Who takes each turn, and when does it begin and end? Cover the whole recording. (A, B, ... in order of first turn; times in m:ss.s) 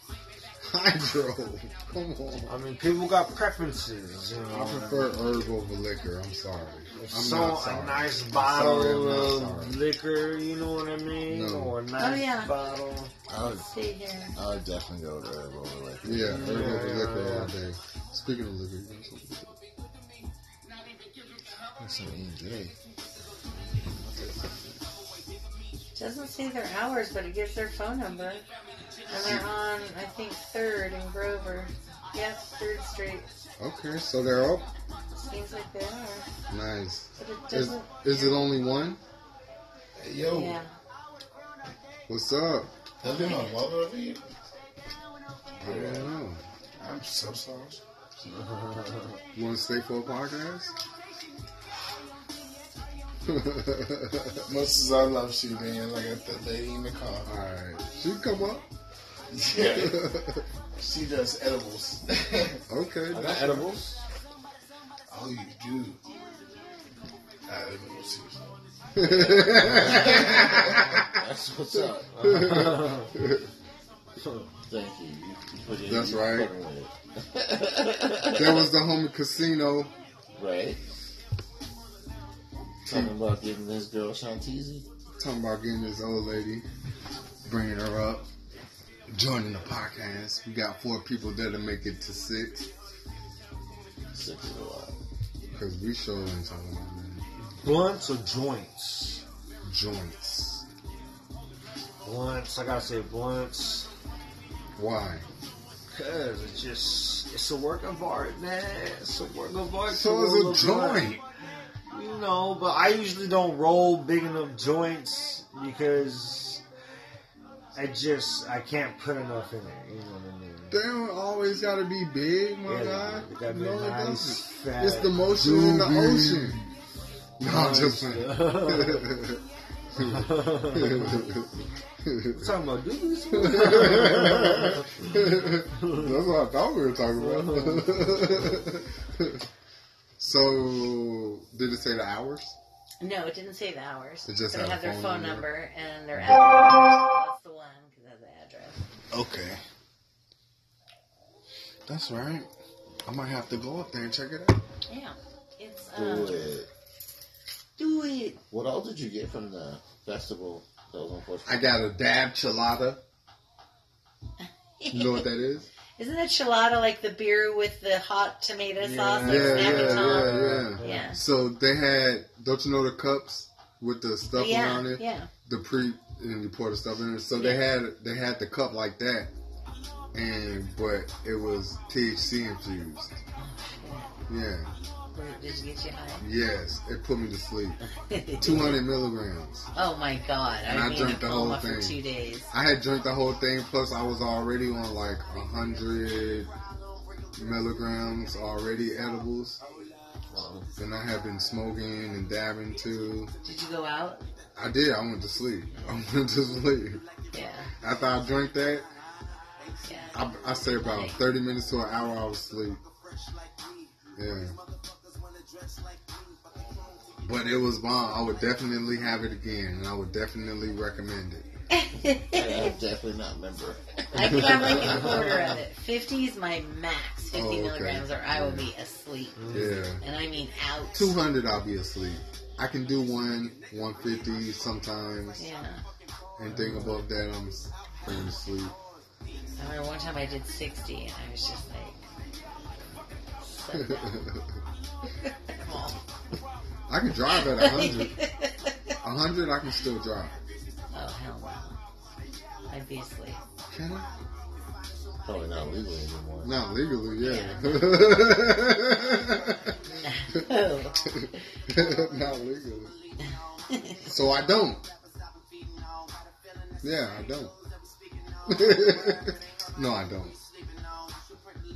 0:00.6-0:02.5 A
0:02.5-0:05.1 B
0:04.5-0:09.8 A
0:07.0-0:13.1 B
0:11.3-0:11.7 A
0:12.0-0:12.5 C
0:13.3-0:13.7 D
0:13.5-0:14.4 C
0:14.3-0:16.7 D
0:16.0-0:19.6 A
0:16.2-0:17.5 B
0:21.8-0:22.8 D
0:23.8-0:24.8 A
0:26.0-0:28.4 C
0:29.1-0:33.3 C
0:29.1-0:29.5 A
0:33.6-0:34.7 A
0:35.2-0:36.3 C
0:36.5-0:39.0 A
0:37.2-0:38.4 C
0:40.0-0:40.6 E
0:40.3-0:40.7 C
0:42.1-0:42.7 A
0:43.0-0:44.2 D
0:43.0-0:44.2 E
0:45.6-0:46.4 A
0:45.6-0:46.0 D
0:45.6-0:46.0 E
0:46.8-0:47.8 E
0:48.3-0:49.2 B
0:49.3-0:50.7 A
0:53.2-0:54.5 A
0:54.4-0:57.3 E
0:57.2-0:58.7 A
0:59.3-1:00.1 E
0:59.6-1:00.4 A
1:00.8-1:03.9 E
1:02.7-1:03.6 A
1:05.1-1:06.0 E
1:07.4-1:08.6 E
1:08.9-1:11.0 A
1:09.3-1:12.5 D
1:10.0-1:10.8 E
1:12.2-1:13.1 B
1:12.2-1:13.5 A
1:14.2-1:14.5 B
1:14.7-1:18.7 D
1:15.8-1:16.5 A
1:18.3-1:19.9 A
1:20.4-1:20.8 D
1:22.8-1:23.1 A
1:22.8-1:24.9 D
1:25.2-1:26.6 A
1:27.4-1:28.3 A
1:29.1-1:32.7 A
1:34.1-1:35.0 D
1:35.5-1:37.2 A
1:37.4-1:39.2 B
1:39.6-1:40.6 A
1:42.0-1:43.9 B
1:44.8-1:45.3 A
1:45.9-1:51.2 B
1:49.9-1:51.2 A
1:51.9-1:56.6 B
1:57.7-2:00.8 B
2:00.7-2:06.6 A
2:02.6-2:06.6 B
2:07.4-2:09.1 B
2:07.4-2:09.4 A
2:09.9-2:11.3 B
2:09.9-2:12.5 A
2:12.3-2:16.2 B
2:13.3-2:19.4 A
2:17.1-2:18.5 B
2:20.2-2:22.6 A
2:23.0-2:28.8 C
2:24.2-2:25.5 A
2:26.1-2:26.6 A
2:29.1-2:29.6 A
2:31.9-2:32.5 A
2:33.0-2:34.6 A
2:34.9-2:36.5 C
2:35.9-2:36.7 D
2:37.8-2:38.4 C
2:38.5-2:41.7 D
2:41.4-2:43.0 A
2:44.4-2:45.2 C
2:44.9-2:45.7 A
2:46.0-2:51.2 C
2:48.8-2:51.1 B
2:49.2-2:59.3 A
2:54.3-2:55.3 C
2:57.3-2:57.6 C
3:00.1-3:03.2 A
3:03.4-3:04.1 C
3:04.3-3:04.7 A
3:05.1-3:06.2 C
3:06.2-3:07.8 A
3:07.9-3:08.7 C
3:08.4-3:09.7 A
3:09.7-3:12.5 C
3:10.6-3:12.0 A
3:12.5-3:16.5 A
3:17.4-3:19.6 A
3:20.3-3:20.6 B
3:20.8-3:23.3 A
3:23.4-3:24.2 C
3:24.6-3:27.0 A
3:27.3-3:27.7 C
3:27.8-3:28.8 A
3:29.8-3:30.1 C
3:30.1-3:32.8 A
3:30.8-3:31.2 C
3:34.2-3:34.6 A
3:37.2-3:41.5 A
3:41.7-3:42.7 C
3:42.3-3:45.4 D
3:44.1-3:51.1 C
3:44.2-3:44.8 A
3:44.9-3:45.5 B
3:47.3-3:48.7 A
3:49.4-3:49.8 B
3:49.5-3:50.0 A
3:50.9-3:55.4 A
3:55.4-3:55.8 C
3:56.4-3:58.7 A
3:56.5-3:57.0 B
3:59.6-4:02.0 C
4:03.4-4:04.2 C
4:03.7-4:04.6 A
4:05.2-4:06.0 C
4:06.9-4:08.2 A
4:07.4-4:08.9 C
4:09.0-4:10.4 A
4:10.9-4:11.7 C
4:12.7-4:13.4 C
4:13.7-4:14.1 A
4:15.2-4:16.6 D
4:16.4-4:19.8 A
4:17.2-4:17.7 C
4:19.8-4:21.1 C
4:21.0-4:23.0 A
4:23.2-4:24.0 C
4:24.0-4:24.8 A
4:26.8-4:27.5 A
4:28.5-4:30.4 A